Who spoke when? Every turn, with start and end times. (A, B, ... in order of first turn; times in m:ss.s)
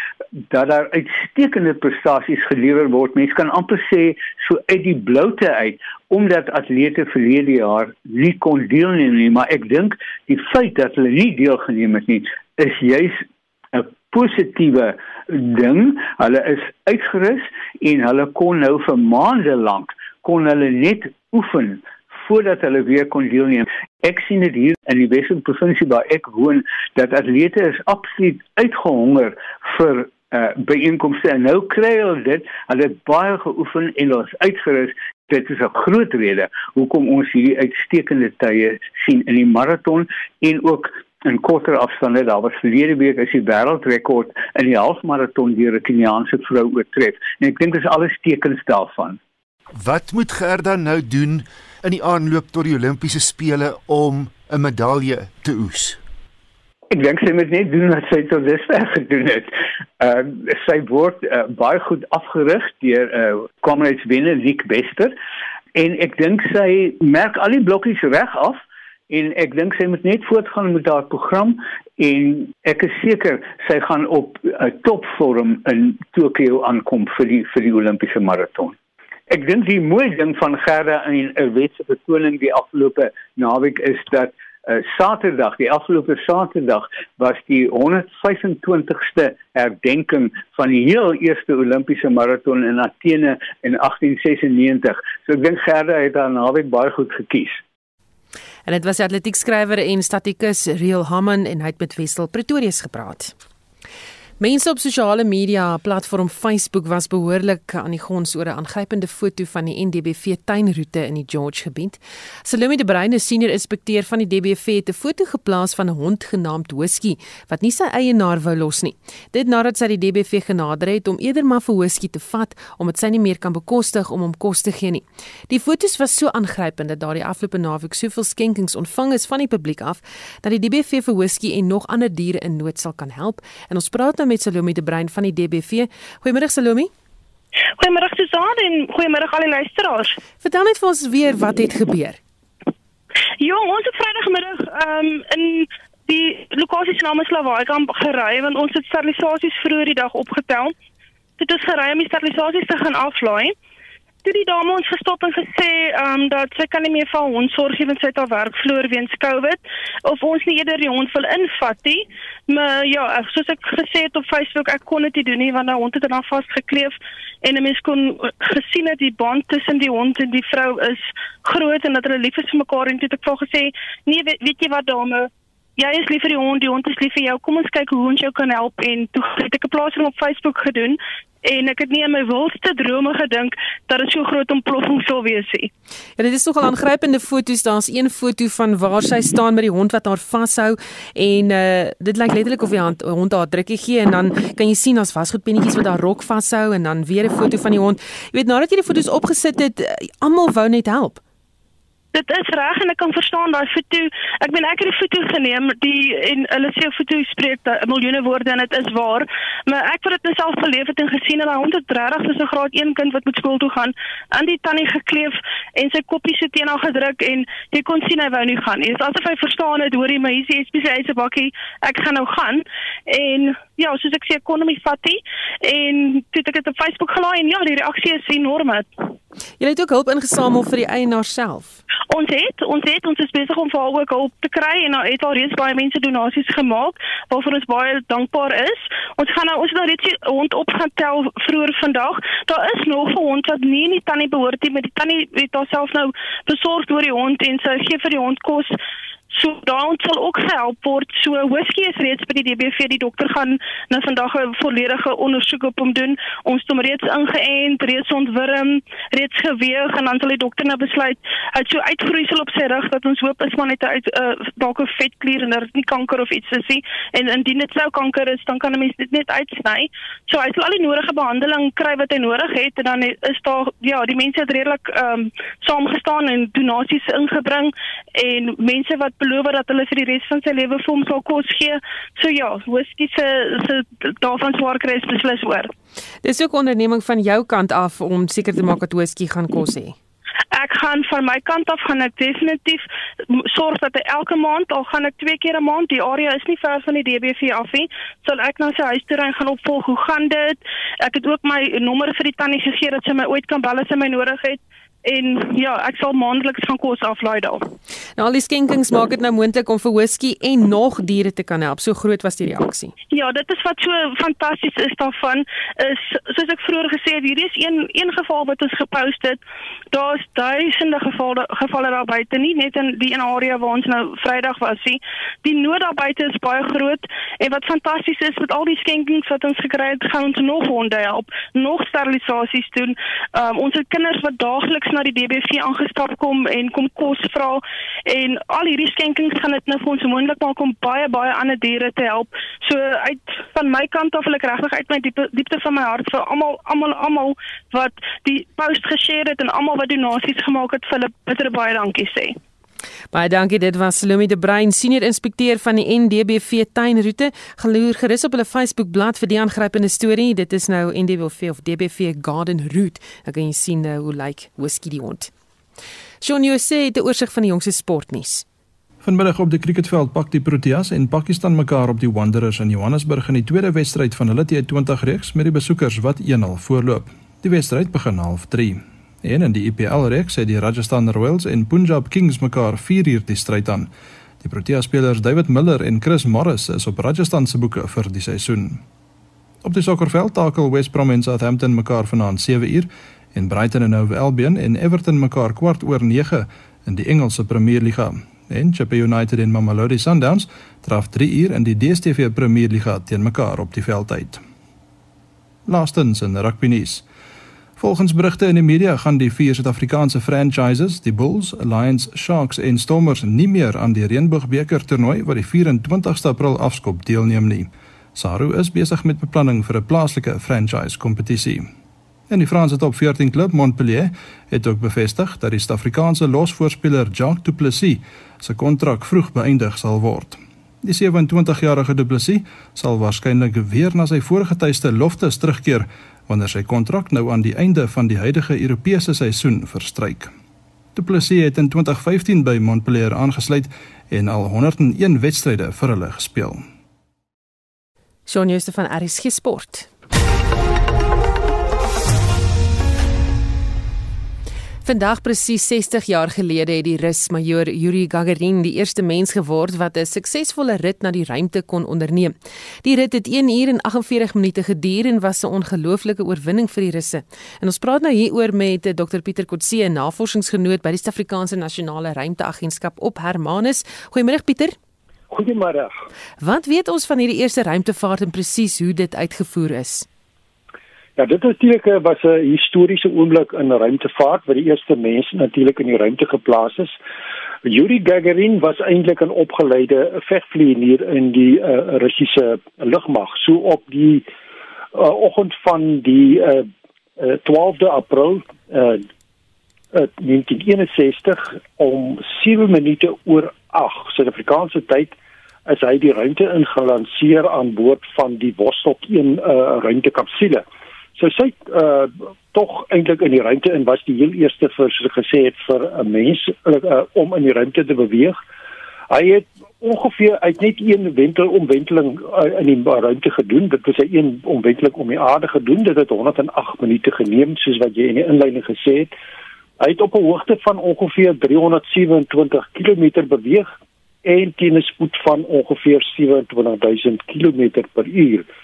0:00.5-0:49.2 A
0:49.7-0:56.0 B
0:56.9-1:05.1 A
1:05.8-1:18.8 A
1:19.3-1:37.6 A
1:38.7-1:43.4 C
1:44.4-2:16.9 C
2:17.8-2:20.2 D
2:20.4-2:22.2 C
2:23.4-2:30.7 D
2:31.4-2:33.6 D
2:34.2-3:05.7 D
3:06.2-3:21.2 C
3:22.1-3:48.9 D
3:49.6-3:51.8 C
3:52.1-4:08.7 D
4:09.3-4:45.7 D
4:46.2-4:50.0 C
4:50.5-5:07.6 D
5:08.2-5:12.9 C
5:13.1-5:19.4 D
5:19.9-5:52.4 D
5:53.1-6:05.3 C
6:06.2-6:08.4 C
6:09.0-6:23.9 E
6:24.4-6:28.8 E
6:29.6-6:44.4 E
6:45.7-6:47.0 E
6:47.8-7:01.7 E
7:02.3-7:20.3 E
7:21.0-7:26.6 E
7:28.3-7:29.9 C
7:34.8-7:54.8 C
7:55.3-7:56.0 F
7:56.4-8:00.1 C
8:01.2-8:07.0 F
8:07.6-8:14.3 F
8:14.9-8:16.7 F
8:17.2-8:19.1 F
8:19.9-8:30.6 F
8:31.2-8:38.4 F
8:39.1-8:49.1 F
8:49.8-8:53.7 F
8:54.2-8:58.5 F